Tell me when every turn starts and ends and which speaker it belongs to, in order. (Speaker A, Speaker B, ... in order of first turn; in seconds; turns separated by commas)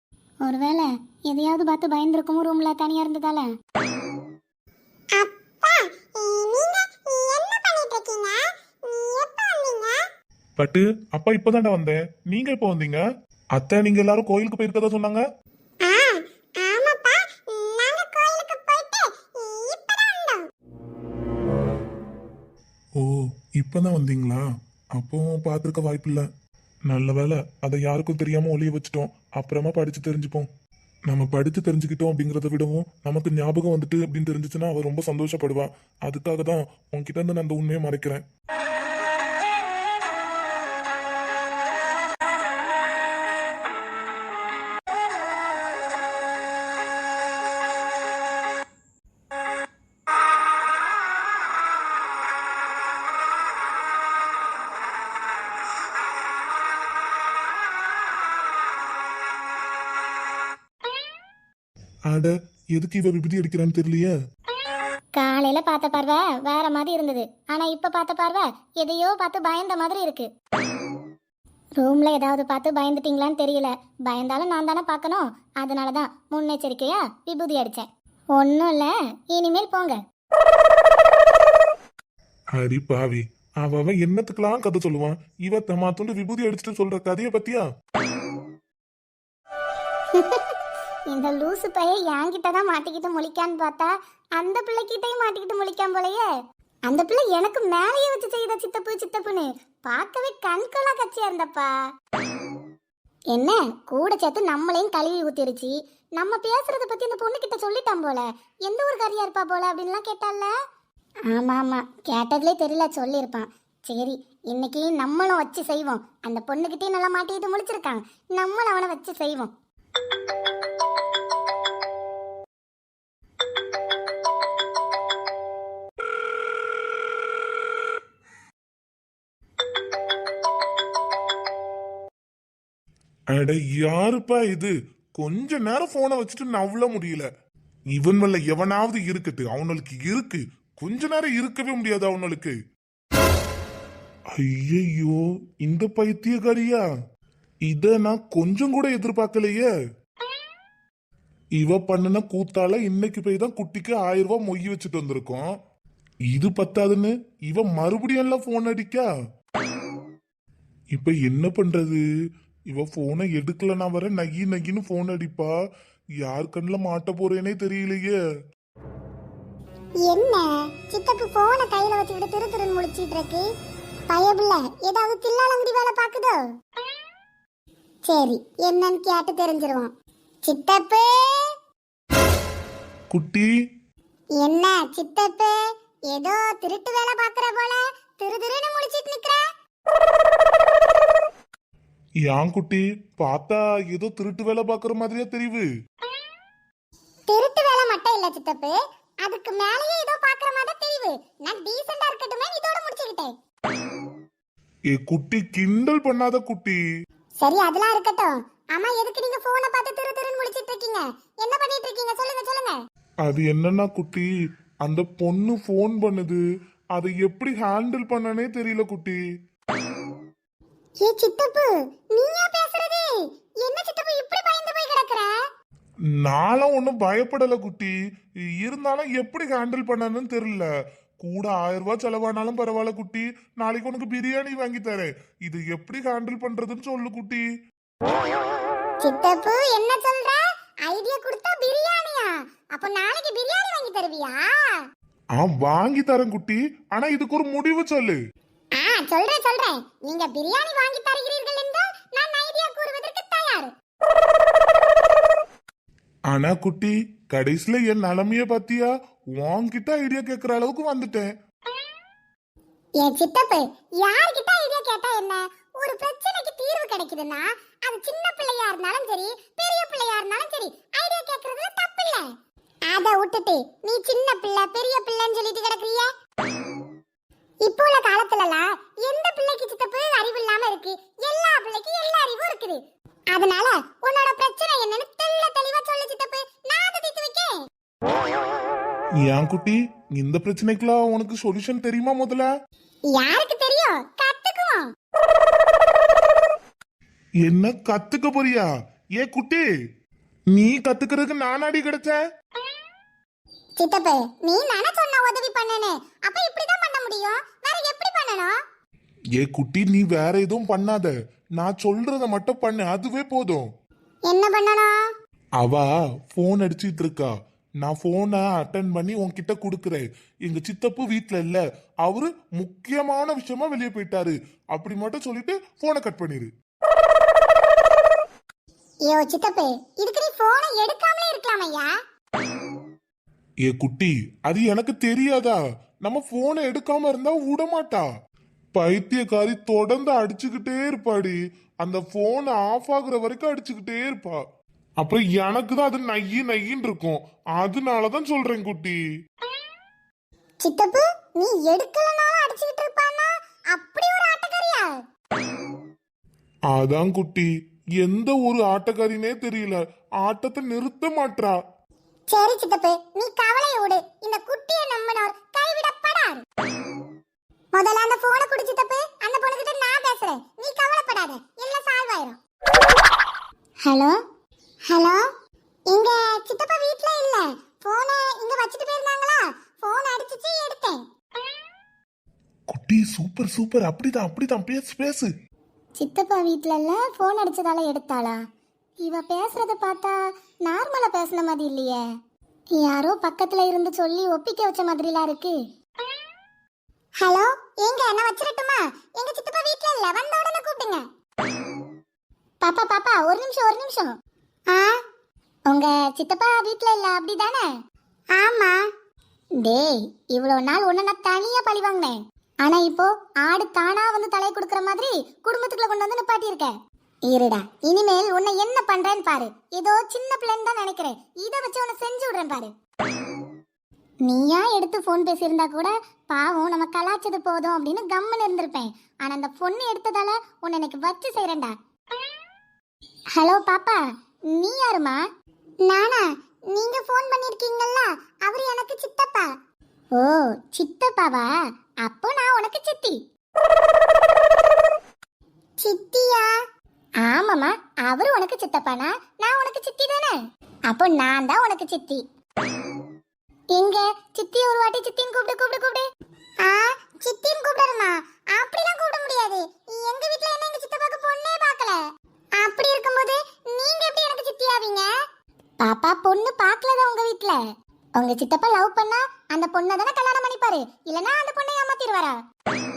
Speaker A: 0.4-3.5, Speaker A: 5.1-10.0, Speaker B: 10.6-13.0, Speaker B: 13.5-15.2, Speaker A: 15.8-20.4, Speaker B: 23.0-24.4, Speaker B: 24.9-26.2, Speaker B: 26.9-30.5, Speaker B: 31.1-38.2, Speaker B: 62.1-64.1, Speaker A: 65.2-70.3, Speaker A: 71.8-80.0, Speaker B: 82.5-87.6, Speaker A: 90.1-90.5, Speaker A: 91.1-96.2, Speaker A: 96.9-101.7, Speaker A: 103.3-110.5, Speaker A: 111.3-119.5, Speaker B: 133.3-137.3, Speaker B: 137.9-142.5, Speaker B: 144.3-146.8, Speaker B: 147.7-149.7, Speaker B: 151.6-155.4, Speaker B: 156.3-159.1, Speaker B: 160.9-162.0, Speaker B: 162.7-165.5, Speaker B: 166.2-168.2, Speaker A: 170.0-173.4, Speaker A: 174.1-176.4, Speaker A: 178.1-179.9, Speaker A: 180.4-181.5, Speaker B: 183.1-183.5, Speaker A: 184.4-185.6, Speaker A: 186.1-189.4, Speaker B: 192.2-195.7, Speaker A: 197.3-203.3, Speaker B: 204.9-206.8, Speaker A: 207.4-212.8, Speaker B: 213.2-214.3, Speaker B: 214.8-216.4, Speaker B: 216.9-219.2, Speaker A: 221.0-225.3, Speaker B: 226.2-227.9, Speaker B: 228.6-230.7, Speaker B: 231.2-237.4, Speaker A: 239.0-244.8, Speaker B: 245.4-248.2, Speaker A: 248.8-253.7, Speaker B: 256.3-261.3, Speaker A: 263.0-272.3, Speaker A: 272.9-276.1, Speaker A: 277.6-282.8, Speaker A: 283.3-287.6, Speaker B: 289.2-292.5, Speaker A: 293.1-294.9, Speaker B: 297.4-299.6, Speaker B: 300.5-302.2, Speaker A: 303.8-308.6, Speaker B: 309.4-313.7, Speaker A: 314.3-314.9, Speaker B: 315.6-326.5, Speaker A: 329.1-331.9, Speaker B: 333.6-338.1, Speaker B: 338.7-344.4, Speaker B: 345.0-349.0, Speaker A: 350.6-355.0, Speaker B: 356.7-361.6, Speaker A: 362.3-366.4, Speaker A: 367.7-372.4, Speaker A: 373.8-374.2, Speaker A: 374.9-375.2, Speaker A: 375.9-381.0, Speaker B: 382.7-385.3, Speaker A: 386.0-388.4, Speaker A: 389.0-392.0, Speaker A: 392.8-395.6, Speaker A: 397.2-401.0, Speaker A: 402.6-404.1, Speaker A: 404.7-405.0, Speaker A: 405.7-407.7, Speaker A: 408.4-408.8, Speaker A: 409.6-416.7, Speaker A: 417.3-422.7, Speaker A: 424.2-431.8, Speaker A: 433.3-435.2, Speaker A: 435.9-439.5, Speaker A: 440.1-441.5, Speaker A: 442.0-443.2, Speaker A: 445.8-446.5, Speaker A: 447.2-450.4, Speaker A: 450.9-452.2, Speaker A: 453.7-456.1, Speaker A: 456.6-462.0, Speaker A: 462.6-465.1, Speaker A: 465.8-467.6, Speaker A: 468.2-472.4